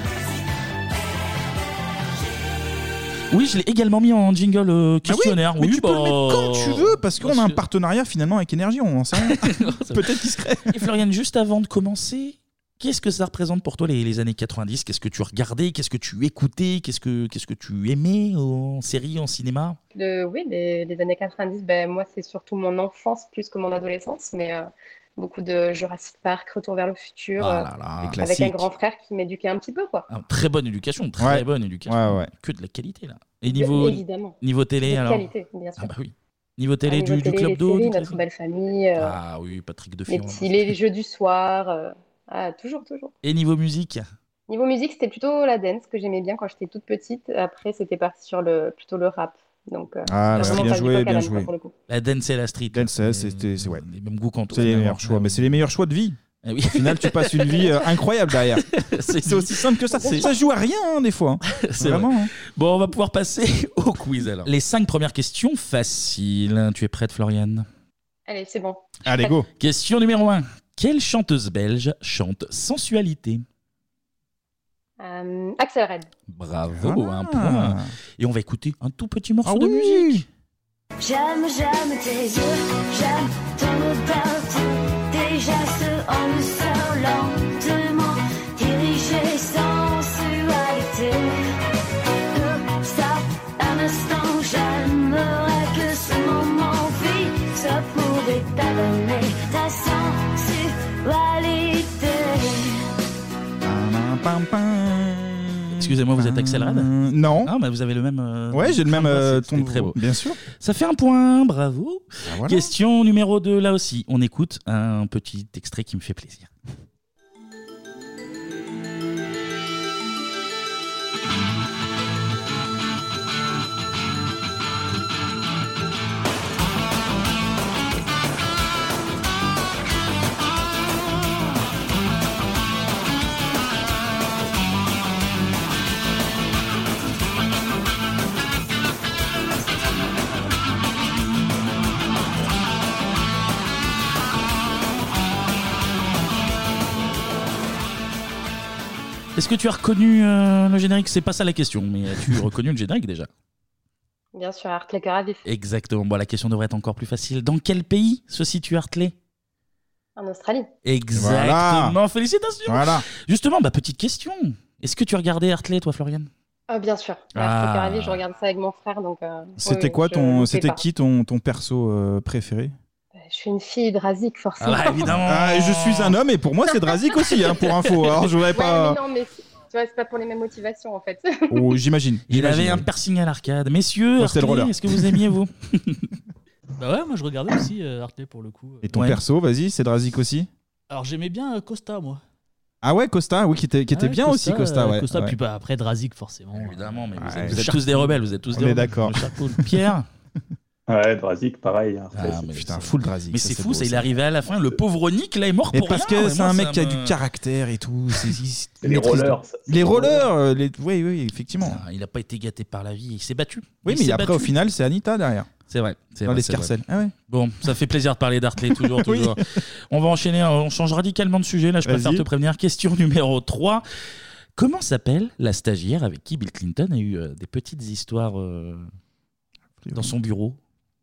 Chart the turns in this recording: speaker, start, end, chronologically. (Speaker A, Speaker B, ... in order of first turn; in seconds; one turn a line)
Speaker A: 3.3-7.6
Speaker B: 5.0-10.7
Speaker A: 9.2-19.8
Speaker C: 19.9-30.1
Speaker A: 27.4-28.2
Speaker B: 28.0-28.6
Speaker A: 30.1-35.3
Speaker B: 31.2-32.3
Speaker C: 33.5-35.9
Speaker A: 35.8-38.2
Speaker C: 36.9-39.1
Speaker A: 39.0-40.8
Speaker C: 40.1-43.1
Speaker A: 43.2-44.1
Speaker C: 44.5-51.7
Speaker B: 50.1-51.5
Speaker A: 50.3-50.9
Speaker A: 51.9-55.5
Speaker B: 52.7-53.8
Speaker B: 54.5-56.2
Speaker A: 56.4-57.7
Speaker B: 56.7-58.6
Speaker A: 58.7-60.2
Speaker B: 59.2-62.3
Speaker A: 61.5-67.7
Speaker C: 68.3-69.4
Speaker B: 69.0-69.5
Speaker A: 69.6-73.4
Speaker C: 75.0-76.1
Speaker A: 76.3-80.2
Speaker B: 76.7-77.9
Speaker B: 79.4-80.2
Speaker D: 81.0-91.4
Speaker D: 92.3-102.8
Speaker B: 103.6-107.5
Speaker A: 105.8-106.9
Speaker A: 107.4-110.0
Speaker B: 108.5-110.4
Speaker A: 110.5-116.5
Speaker B: 112.2-112.7
Speaker A: 149.3-153.3
Speaker C: 154.3-155.4
Speaker A: 155.4-159.1
Speaker C: 160.2-160.7
Speaker A: 160.8-166.3
Speaker B: 161.1-161.9
Speaker B: 162.7-163.0
Speaker C: 166.7-170.8
Speaker A: 167.3-168.2
Speaker B: 169.6-172.7
Speaker C: 173.2-175.2
Speaker A: 174.6-176.2
Speaker B: 175.1-179.0
Speaker C: 178.5-181.6
Speaker B: 181.5-182.8
Speaker A: 182.3-186.1
Speaker B: 184.2-185.2
Speaker E: 186.8-188.9
Speaker B: 188.8-190.5
Speaker A: 188.9-189.2
Speaker E: 190.9-192.2
Speaker B: 192.8-195.3
Speaker E: 193.9-198.3
Speaker A: 196.5-200.1
Speaker B: 197.2-197.7
Speaker B: 198.5-199.2
Speaker F: 200.9-202.4
Speaker A: 202.1-207.2
Speaker B: 202.5-204.1
Speaker B: 205.7-211.8
Speaker F: 208.8-210.3
Speaker A: 211.6-214.5
Speaker B: 213.8-215.5
Speaker A: 215.7-223.8
Speaker B: 216.2-217.1
Speaker B: 218.6-219.4
Speaker B: 221.8-222.2
Speaker A: 224.6-228.9
Speaker B: 229.8-230.1
Speaker A: 229.9-230.6